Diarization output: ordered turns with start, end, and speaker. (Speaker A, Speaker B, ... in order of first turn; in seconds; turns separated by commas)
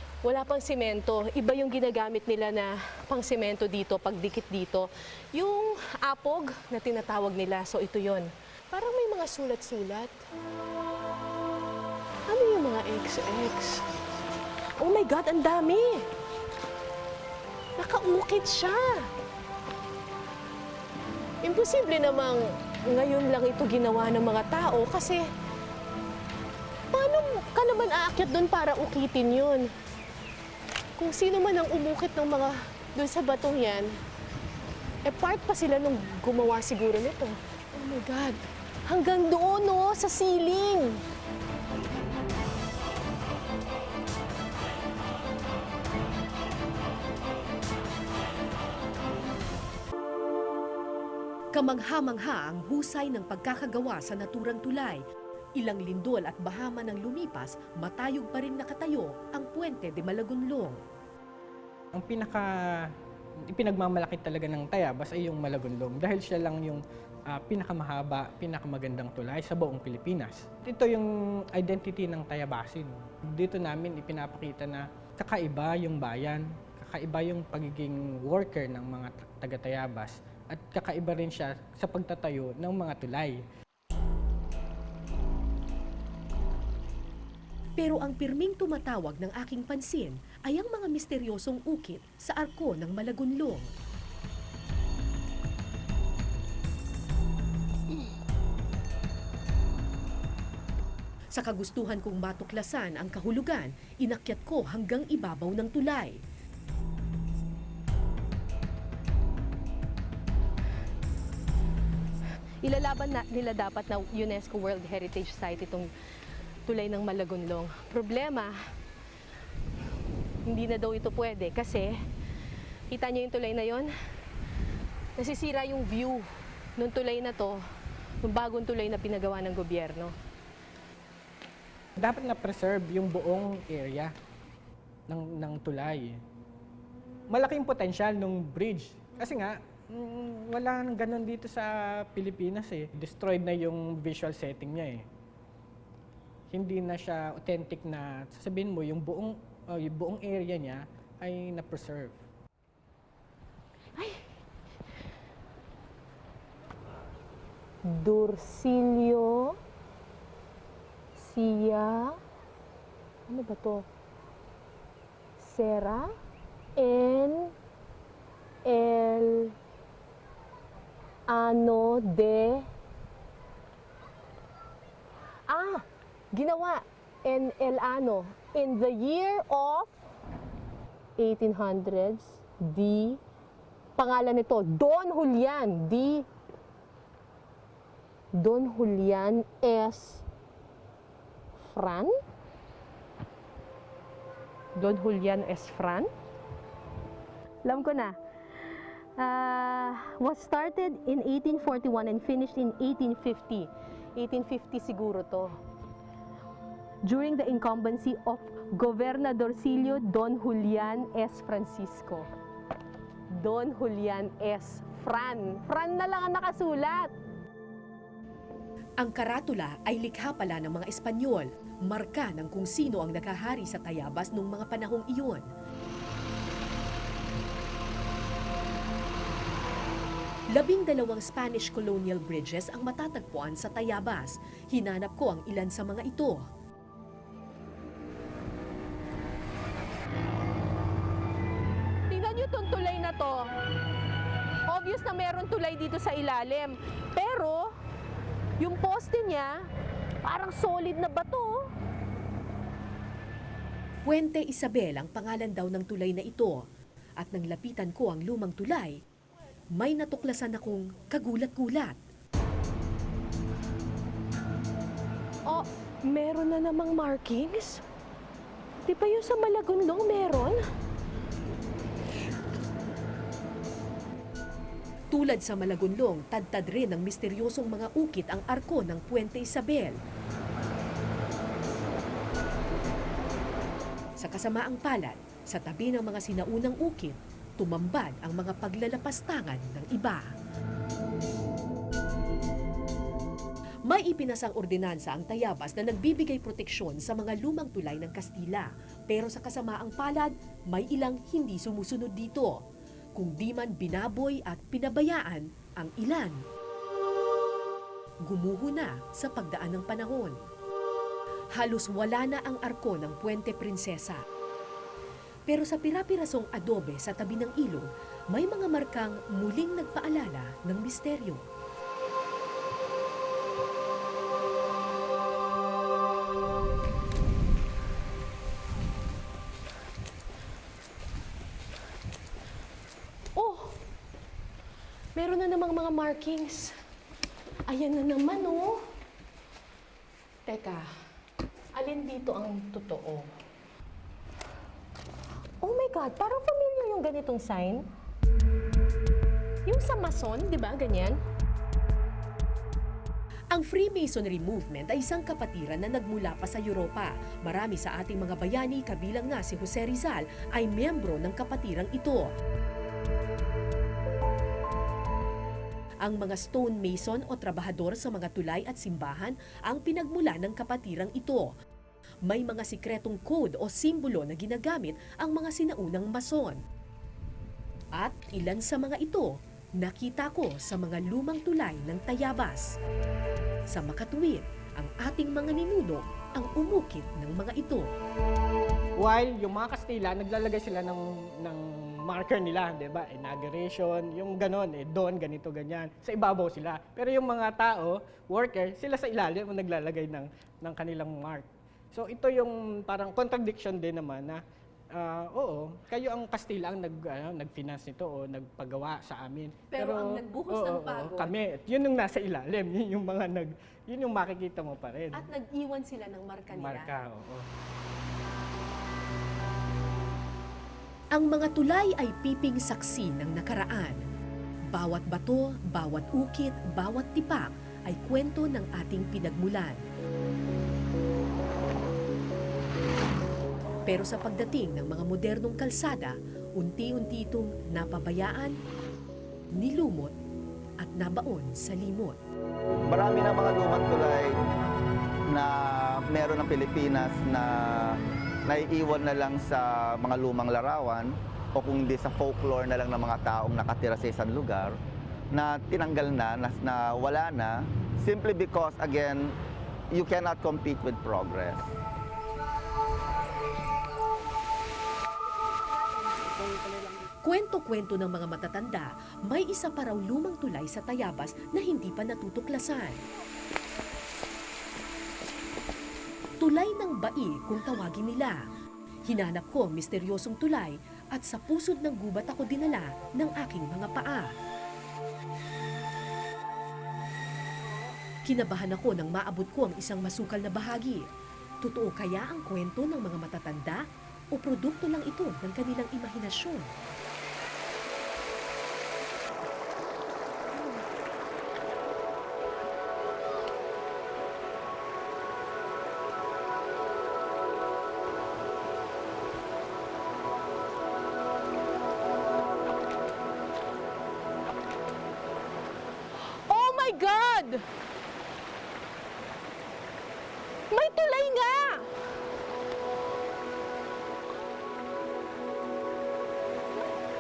Speaker A: 0.2-10.2, Speaker A: 12.3-13.9, Speaker A: 14.8-16.1, Speaker A: 17.8-19.1, Speaker A: 21.4-25.2, Speaker A: 26.9-29.7, Speaker A: 31.0-34.0, Speaker A: 35.0-41.0, Speaker B: 51.5-55.0, Speaker B: 55.6-60.8, Speaker C: 62.0-62.9, Speaker C: 63.5-83.4, Speaker B: 87.8-93.7, Speaker B: 101.3-106.2, Speaker A: 112.6-115.9, Speaker A: 116.7-118.6, Speaker A: 120.5-122.0, Speaker A: 122.9-123.9, Speaker A: 125.2-127.6, Speaker A: 128.2-130.2, Speaker C: 132.0-134.1, Speaker C: 135.1-136.2, Speaker C: 137.3-145.1, Speaker C: 146.5-152.2, Speaker A: 154.0-154.3, Speaker A: 157.9-159.6, Speaker A: 161.2-162.2, Speaker A: 163.3-163.9, Speaker A: 165.4-166.1, Speaker A: 166.8-167.5, Speaker A: 168.7-169.6, Speaker A: 171.3-172.7, Speaker A: 175.5-180.0, Speaker A: 181.2-183.2, Speaker A: 184.0-186.3, Speaker A: 188.3-190.2, Speaker A: 191.6-192.2, Speaker A: 194.8-196.1, Speaker A: 197.7-198.2, Speaker A: 199.2-205.6, Speaker A: 207.0-212.3, Speaker A: 213.3-217.1, Speaker B: 219.0-225.5, Speaker B: 230.5-236.5, Speaker A: 242.1-243.5, Speaker A: 244.7-247.7, Speaker A: 248.6-249.7, Speaker A: 250.2-251.7, Speaker B: 254.1-256.7, Speaker B: 257.2-259.0, Speaker B: 259.8-262.0, Speaker A: 265.5-267.8, Speaker A: 268.9-270.6, Speaker B: 275.1-280.0, Speaker B: 284.2-290.3, Speaker B: 293.9-306.4, Speaker B: 308.2-310.4, Speaker B: 311.5-314.2, Speaker B: 315.5-321.5, Speaker A: 333.4-333.8, Speaker A: 335.2-336.8, Speaker A: 337.7-338.9, Speaker A: 340.5-340.9, Speaker A: 341.8-343.3, Speaker A: 345.6-347.9, Speaker A: 349.7-351.2, Speaker B: 353.5-362.3, Speaker B: 366.0-371.6, Speaker B: 372.2-376.6, Speaker B: 377.9-382.8, Speaker B: 383.7-387.9, Speaker C: 389.0-404.4, Speaker C: 404.9-415.3, Speaker A: 409.7-411.3, Speaker A: 415.1-416.9, Speaker C: 416.5-417.5, Speaker B: 421.1-424.0, Speaker B: 424.7-429.8, Speaker B: 433.9-438.6, Speaker B: 439.5-440.2, Speaker B: 440.8-442.2, Speaker D: 442.9-444.4, Speaker D: 445.3-454.8, Speaker D: 455.3-459.4, Speaker D: 459.9-461.7, Speaker B: 467.2-473.0, Speaker B: 476.4-478.5, Speaker B: 479.1-484.3, Speaker B: 488.2-491.1, Speaker B: 491.6-496.7, Speaker A: 516.4-517.6, Speaker A: 520.7-521.9